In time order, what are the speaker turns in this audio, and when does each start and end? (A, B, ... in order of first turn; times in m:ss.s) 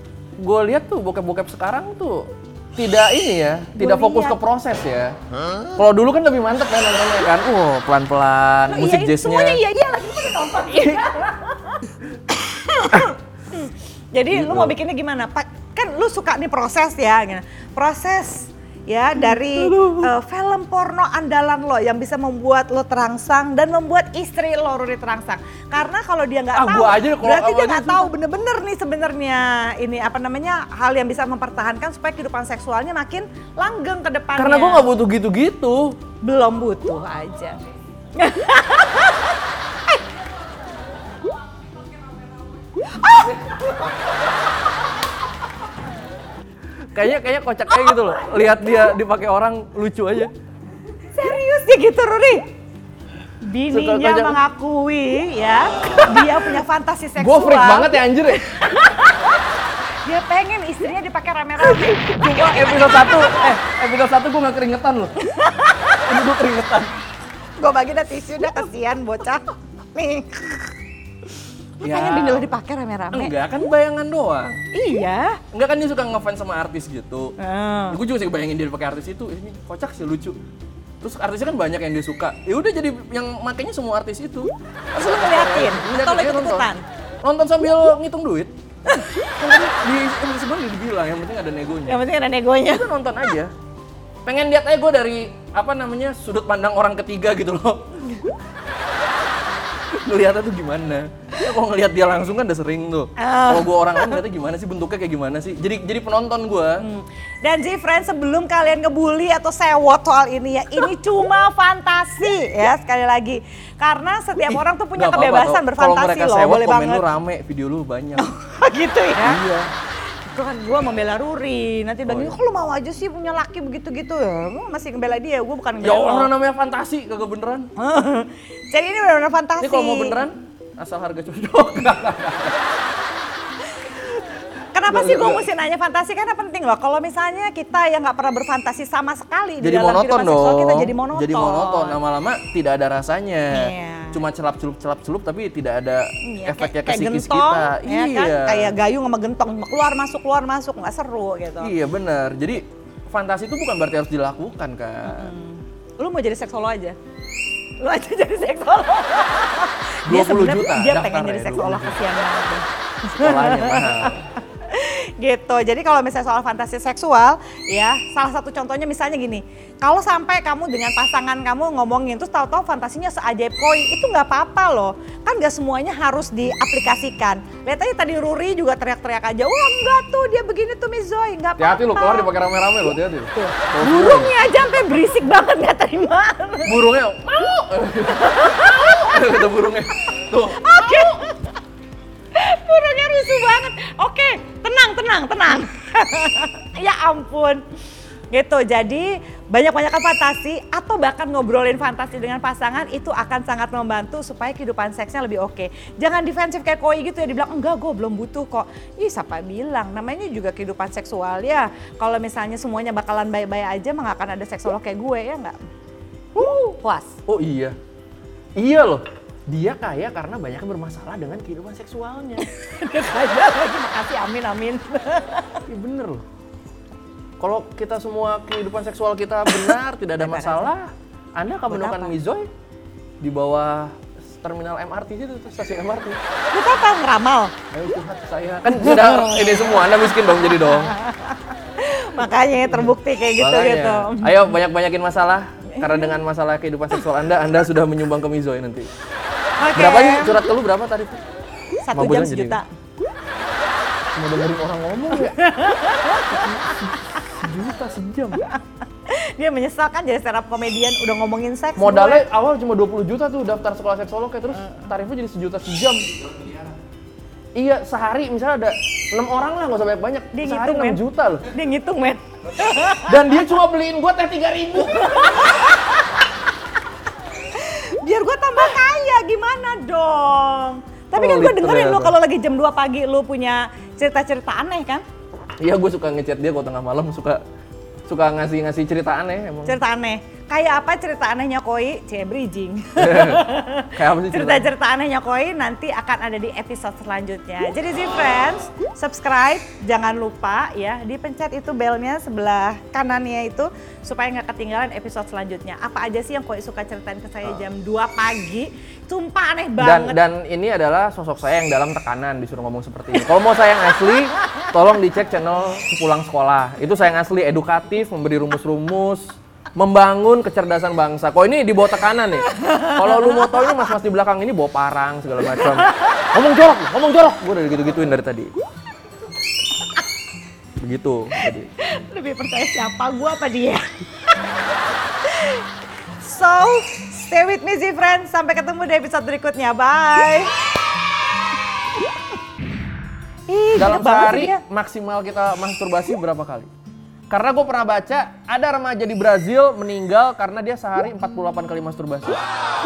0:00.4-0:05.2 A
0:03.8-0:04.4 B
0:05.8-0:09.6 A
0:08.7-0:34.9 B
0:10.8-0:11.0 A
0:14.3-0:14.8 A
0:19.3-0:20.1 A
0:26.5-0:28.1 A
0:34.4-0:36.0 A
0:36.2-0:37.6 B
0:38.1-0:39.4 B
0:42.9-0:43.8 B
0:46.9-0:50.3 A
0:47.9-0:48.8 B
0:51.1-0:52.4 B
0:53.4-0:57.9 B
0:53.7-0:54.4 A
0:57.2-0:58.7 A
0:58.8-0:59.2 B
1:00.0-1:03.5 B
1:01.6-1:05.2 A
1:05.2-1:06.0 B
1:05.9-1:07.0 A
1:07.6-1:09.4 B
1:09.9-1:10.7 B
1:11.8-1:13.3 B
1:11.8-1:12.5 A
1:13.1-1:14.6 A
1:14.7-1:15.4 B
1:15.5-1:17.3 A
1:17.4-1:18.0 B
1:17.9-1:20.4 A
1:21.0-1:26.7 A
1:25.0-1:26.8 B
1:27.2-1:28.5 A
1:29.4-1:32.0 A
1:31.9-1:32.9 B
1:32.6-1:33.5 A
1:34.2-1:38.3 A
1:39.9-1:46.8 A
1:43.2-1:44.2 B
1:46.8-1:57.1 B
1:54.5-1:58.3 A
1:58.2-1:59.4 B
1:59.2-1:59.7 A
2:00.2-2:06.3 B
2:02.1-2:02.4 A
2:05.8-2:07.7 A
2:07.8-2:10.2 B
2:09.6-2:12.6 A
2:14.7-2:22.0 B
2:14.9-2:15.4 A
2:19.6-2:28.7 A
2:23.5-2:24.2 B
2:26.2-2:31.7 B
2:31.6-2:35.3 A
2:35.0-2:37.0 B
2:37.8-3:02.3 B
2:40.0-2:42.0 A
2:43.1-2:44.2 A
3:01.6-3:04.3 A
3:03.3-3:06.8 B
3:06.6-3:11.2 A
3:08.1-3:09.4 B
3:10.6-3:11.5 B
3:12.3-3:17.6 B
3:18.3-3:35.6 B
3:36.3-3:37.2 B
3:37.3-3:37.8 A
3:38.6-3:42.4 A
3:42.5-3:45.6 B
3:45.7-3:46.2 A
3:47.4-3:52.5 A
3:49.5-3:50.7 B
3:51.7-3:52.1 B
3:53.2-3:56.2 A
3:56.5-3:57.5 B
3:57.7-4:01.0 A
3:58.9-3:59.4 B
4:00.7-4:04.3 B
4:03.4-4:08.9 A
4:05.7-4:06.1 B
4:09.6-4:10.5 B
4:09.7-4:11.2 A
4:11.8-4:12.6 B
4:11.9-4:12.6 A
4:14.1-4:15.6 A
4:15.1-4:16.9 B
4:16.2-4:18.5 A
4:19.1-4:22.2 B
4:21.8-4:26.3 A
4:27.5-4:31.5 A
4:30.3-4:31.0 B
4:31.5-4:33.3 B
4:33.0-4:35.7 A
4:34.9-4:36.0 B
4:37.5-4:45.0 B
4:41.1-4:42.1 A
4:45.6-4:47.4 A
4:48.1-4:49.8 A
4:49.6-5:10.2 B
4:53.0-4:54.7 A
5:09.8-5:28.5 A
5:22.6-5:23.0 B
5:30.8-5:31.7 A
5:31.8-5:33.9 B
5:35.2-5:35.6 B
5:36.2-5:40.5 B
5:43.5-5:44.6 B
5:43.7-5:46.7 A
5:47.3-5:52.4 A